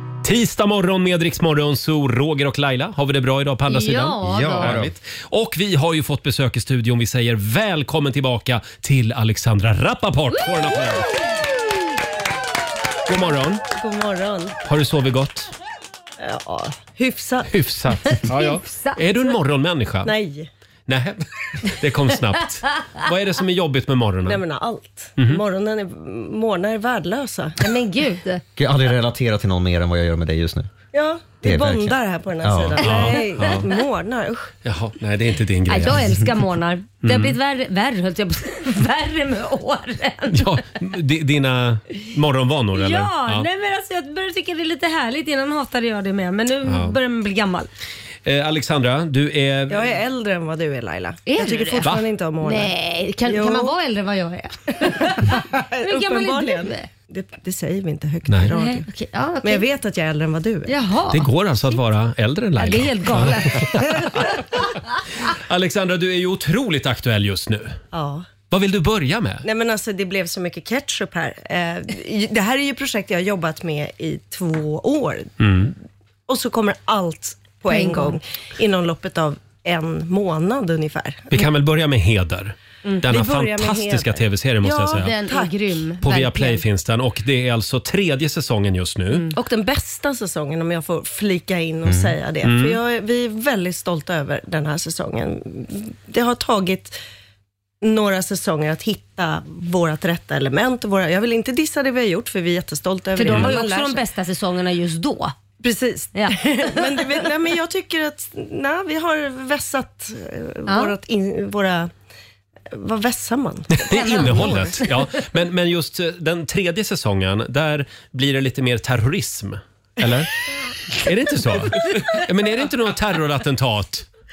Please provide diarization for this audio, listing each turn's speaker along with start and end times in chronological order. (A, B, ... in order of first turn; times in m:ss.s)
0:00.2-0:11.2 A
0:03.7-0:04.8 B
0:04.2-0:04.9 C
0:13.1-0:13.6 A
0:13.7-0:14.5 D
0:14.6-0:15.5 A
0:16.2-0:17.5 D
0:17.5-0:20.1 A
0:18.1-0:19.0 B
0:20.0-0:20.5 D
0:20.9-0:24.4 A
0:24.2-0:27.6 D
0:25.2-0:25.4 A
0:27.6-0:28.4 B
0:28.6-0:30.7 C
0:30.9-0:34.5 D
0:31.4-0:32.8 C
0:32.8-0:33.7 A
0:32.9-0:33.6 B
0:34.6-0:36.2 A
0:35.7-0:40.6 B
0:37.0-0:37.4 A
0:40.3-0:43.4 A
0:42.7-0:47.7 B
0:46.6-0:47.0 A
0:48.2-0:50.0 A
0:49.7-0:53.7 D
0:51.3-0:51.9 B
0:52.4-0:56.9 B
0:54.8-0:58.9 D
0:58.3-0:58.5 A
0:58.5-0:59.6 B
0:59.4-1:00.7 D
1:00.6-1:01.8 B
1:01.1-1:04.3 A
1:02.6-1:04.4 B
1:05.2-1:07.8 A
1:07.9-1:08.3 D
1:08.5-1:09.4 A
1:09.4-1:15.7 D
1:15.4-1:15.7 A
1:16.3-1:21.5 D
1:17.7-1:18.2 B
1:21.3-1:25.1 A
1:22.9-1:25.9 D
1:24.9-1:26.6 B
1:26.0-1:29.3 A
1:29.3-1:37.0 D
1:31.8-1:32.1 C
1:32.4-1:32.8 A
1:37.8-1:44.0 D
1:43.2-1:45.3 B
1:45.6-1:51.9 D
1:46.1-1:47.2 B
1:50.7-1:50.9 B
1:52.7-1:54.8 D
1:53.8-2:00.3 A
1:53.9-1:54.9 B
2:00.9-2:04.1 A
2:01.7-2:02.2 D